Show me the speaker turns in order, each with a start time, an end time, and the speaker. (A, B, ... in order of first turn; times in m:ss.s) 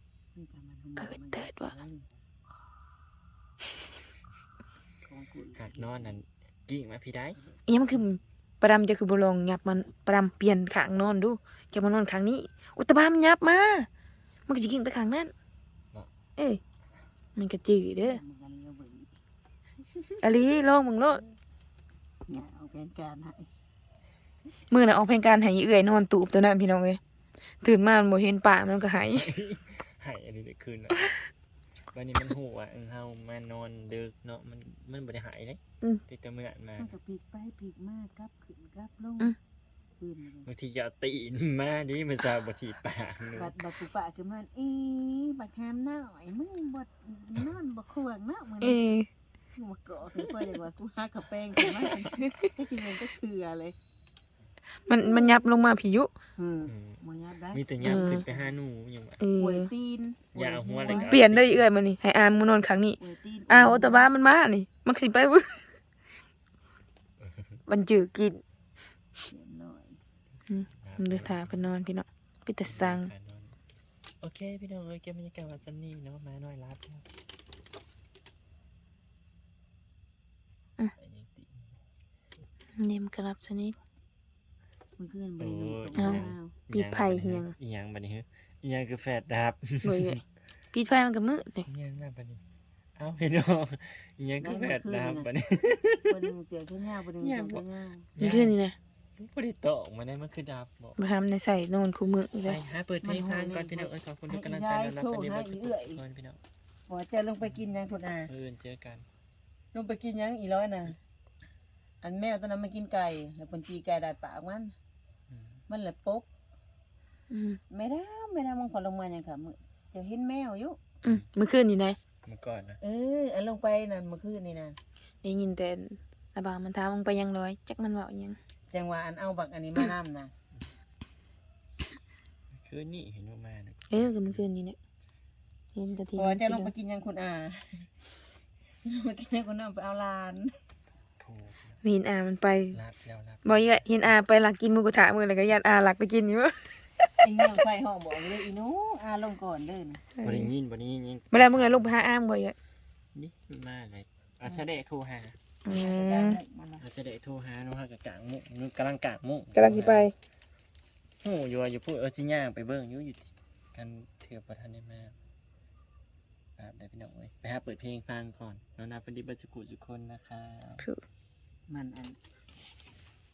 0:00.3-0:02.1 A
0:01.0-0:01.7 B
0:05.1-0:06.2 A
0:05.5-0:07.4 C
0:07.7-0:13.9 B
0:14.5-0:15.3 B
0:17.4-0:18.2 B
0:18.0-0:19.1 A
0:20.2-0:21.2 B
0:22.3-0:23.5 A
0:24.7-0:27.0 B
0:27.6-0:29.3 B
0:29.1-0:31.2 C
0:31.9-0:37.0 C
0:36.8-0:39.4 A
0:40.0-0:40.5 A
0:40.4-0:43.6 C
0:43.3-0:48.9 A
0:48.6-0:49.1 B
0:49.6-0:53.8 A
0:54.9-0:56.1 B
0:55.0-0:55.4 A
0:56.4-0:58.5 A
0:56.6-0:59.2 C
0:57.8-0:58.2 B
0:59.2-0:59.7 B
0:59.4-1:01.2 A
1:00.3-1:01.7 C
1:00.9-1:03.0 B
1:03.0-1:04.1 A
1:03.5-1:05.7 B
1:07.2-1:07.5 C
1:07.7-1:08.4 B
1:09.3-1:10.0 A
1:10.5-1:13.1 B
1:10.7-1:11.7 C
1:12.6-1:13.6 C
1:14.2-1:17.1 C
1:21.0-1:21.8 C
1:22.8-1:23.8 B
1:25.0-1:26.6 A
1:25.4-1:30.2 C
1:26.0-1:27.5 B
1:29.8-1:30.2 B
1:30.7-1:31.7 B
1:31.6-1:32.4 C
1:33.0-1:36.3 C
1:34.4-1:35.3 A
1:36.1-1:38.1 A
1:37.2-1:38.6 C
1:38.2-1:38.8 B
1:39.2-1:41.0 C
1:41.0-1:42.6 B
1:42.4-1:46.4 C
1:43.0-1:46.0 A
1:46.9-1:48.3 A
1:48.3-1:49.1 C
1:49.7-1:51.0 A
1:52.0-1:54.7 A
1:55.3-1:55.6 C
1:55.7-1:56.3 A
1:57.3-1:57.6 B
1:57.7-2:01.0 A
2:01.0-2:02.0 B
2:02.2-2:02.8 C
2:02.8-2:04.8 A
2:05.2-2:08.4 B
2:08.7-2:10.3 A
2:12.5-2:14.4 C
2:13.9-2:14.8 B
2:15.7-2:16.7 B
2:16.1-2:18.1 A
2:18.8-2:20.5 A
2:21.2-2:21.8 C
2:21.8-2:22.8 B
2:22.7-2:23.8 C
2:23.4-2:27.5 B
2:27.2-2:30.1 A
2:30.2-2:30.5 B
2:30.2-2:31.9 C
2:31.3-2:32.5 B
2:33.1-2:35.4 C
2:35.6-2:36.4 B
2:35.6-2:36.8 A
2:36.8-2:40.1 C
2:39.5-2:40.1 B
2:41.2-2:45.2 C
2:46.6-2:50.9 C
2:51.7-2:52.2 A